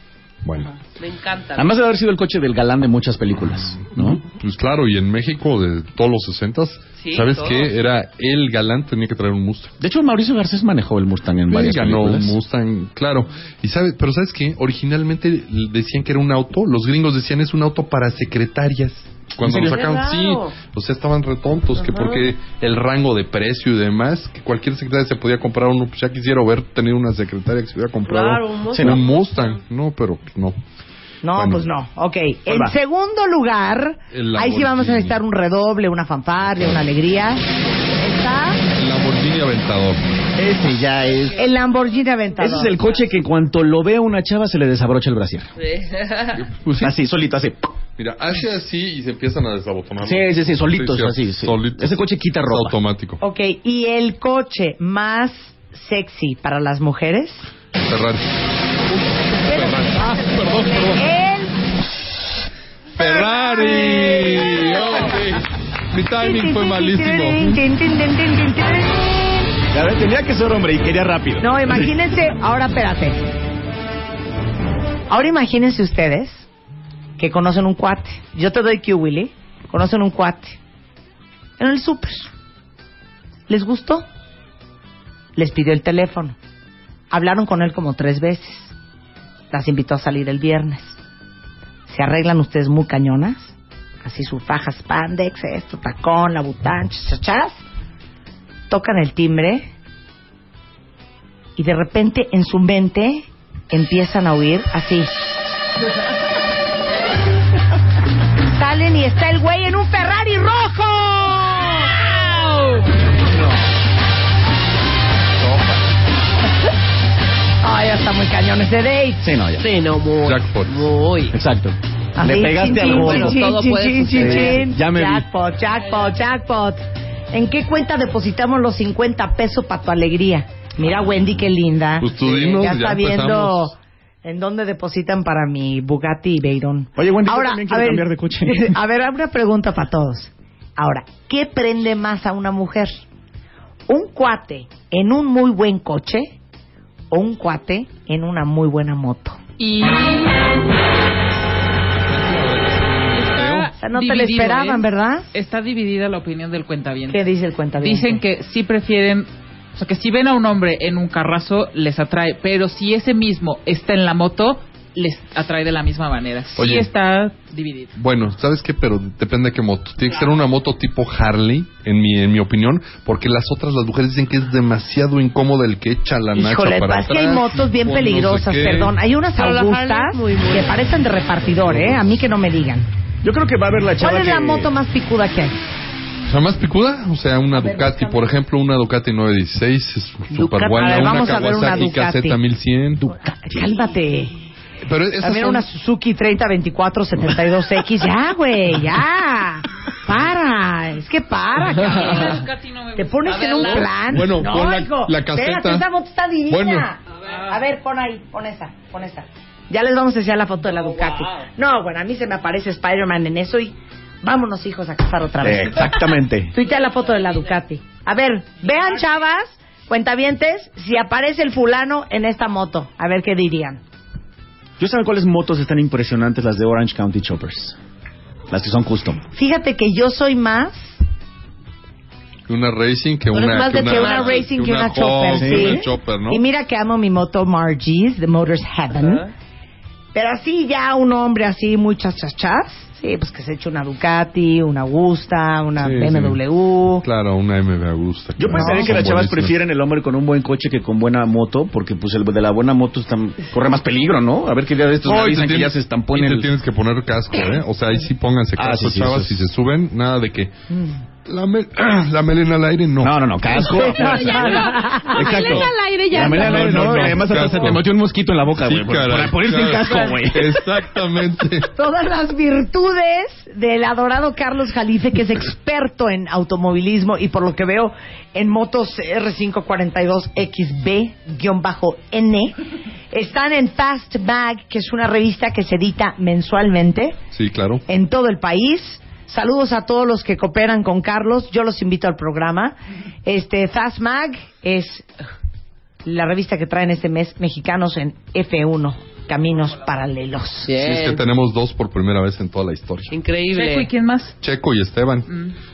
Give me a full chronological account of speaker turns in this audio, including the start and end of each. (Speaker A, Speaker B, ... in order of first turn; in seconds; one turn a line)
Speaker A: 0.4-0.7
Speaker B: 0.9-1.7
Speaker C: 1.6-4.2
Speaker A: 4.0-9.7
Speaker B: 7.0-7.7
Speaker C: 9.8-12.3
Speaker A: 11.5-30.6
Speaker C: 19.4-19.8
Speaker B: 19.6-20.5
Speaker B: 21.8-22.3
Speaker B: 28.0-29.6
Speaker C: 28.7-29.0
Speaker D: 31.2-38.6
Speaker A: 31.3-31.6
Speaker C: 32.5-32.7
Speaker A: 34.1-35.2
Speaker A: 36.5-36.8
Speaker A: 38.7-40.0
Speaker C: 40.4-41.4
Speaker D: 41.4-42.7
Speaker C: 42.4-45.5
Speaker B: 45.7-46.3
Speaker A: 46.3-47.0
Speaker C: 46.8-47.6
Speaker A: 48.0-53.2
Speaker C: 50.0-52.8
Speaker D: 53.2-57.5
Speaker A: 57.8-58.2
Speaker A: 59.2-61.1
Speaker D: 59.3-61.5
Speaker A: 63.0-67.6
Speaker D: 63.0-65.1
Speaker D: 66.2-69.5
Speaker C: 69.7-71.9
Speaker D: 71.4-73.3
Speaker D: 75.1-76.5
Speaker D: 77.2-80.6
Speaker D: 81.6-82.3
Speaker D: 83.5-84.0
Speaker D: 85.3-86.3
Speaker D: 87.1-88.7
Speaker D: 89.5-91.0
Speaker D: 91.9-97.6
Speaker D: 98.7-99.7
Speaker D: 101.5-105.2
Speaker D: 108.5-112.0
Speaker D: 117.6-119.3
Speaker C: 119.2-119.7
Speaker B: 119.6-121.4
Speaker A: 120.2-120.9
Speaker C: 121.3-123.5
Speaker D: 122.2-143.0
Speaker B: 122.8-124.6
Speaker C: 124.1-125.2
Speaker A: 132.0-133.7
Speaker C: 132.3-132.6
Speaker C: 137.0-138.7
Speaker D: 143.9-146.3
Speaker D: 147.1-149.4
Speaker E: 149.6-150.5
Speaker A: 152.1-153.7
Speaker E: 153.1-157.2
Speaker D: 153.8-155.3
Speaker D: 157.1-158.2
Speaker E: 157.8-167.9
Speaker A: 166.6-166.9
Speaker A: 167.9-178.9
Speaker D: 176.3-182.9
Speaker B: 179.4-180.9
Speaker A: 181.6-182.1
Speaker C: 183.2-184.7
Speaker D: 184.0-185.6
Speaker A: 186.2-193.1
Speaker D: 187.6-188.2
Speaker B: 190.3-191.5
Speaker D: 190.7-192.4
Speaker D: 193.0-194.3
Speaker A: 194.8-195.7
Speaker D: 195.2-223.8
Speaker E: 201.8-203.9
Speaker B: 203.5-203.8
Speaker A: 204.1-205.8
Speaker A: 206.5-206.9
Speaker C: 215.4-216.5
Speaker C: 224.8-227.8
Speaker C: 228.5-229.2
Speaker D: 229.3-231.0
Speaker A: 232.5-236.4
Speaker B: 233.3-234.4
Speaker D: 233.8-239.2
Speaker C: 235.3-235.8
Speaker B: 238.9-239.2
Speaker D: 240.1-247.0
Speaker A: 245.8-246.4
Speaker A: 247.0-249.6
Speaker C: 248.4-256.5
Speaker D: 248.5-249.0
Speaker A: 255.0-260.5
Speaker C: 258.6-259.5
Speaker A: 261.2-263.2
Speaker C: 263.0-270.7
Speaker D: 263.6-265.4
Speaker B: 263.6-267.5
Speaker A: 265.4-267.8
Speaker A: 268.6-271.7
Speaker D: 271.7-282.6
Speaker D: 283.1-287.2
Speaker A: 287.3-287.8
Speaker D: 287.9-295.1
Speaker D: 296.0-300.7
Speaker B: 300.6-301.2
Speaker A: 300.8-303.1
Speaker B: 303.1-303.9
Speaker E: 303.5-304.3
Speaker A: 304.4-305.3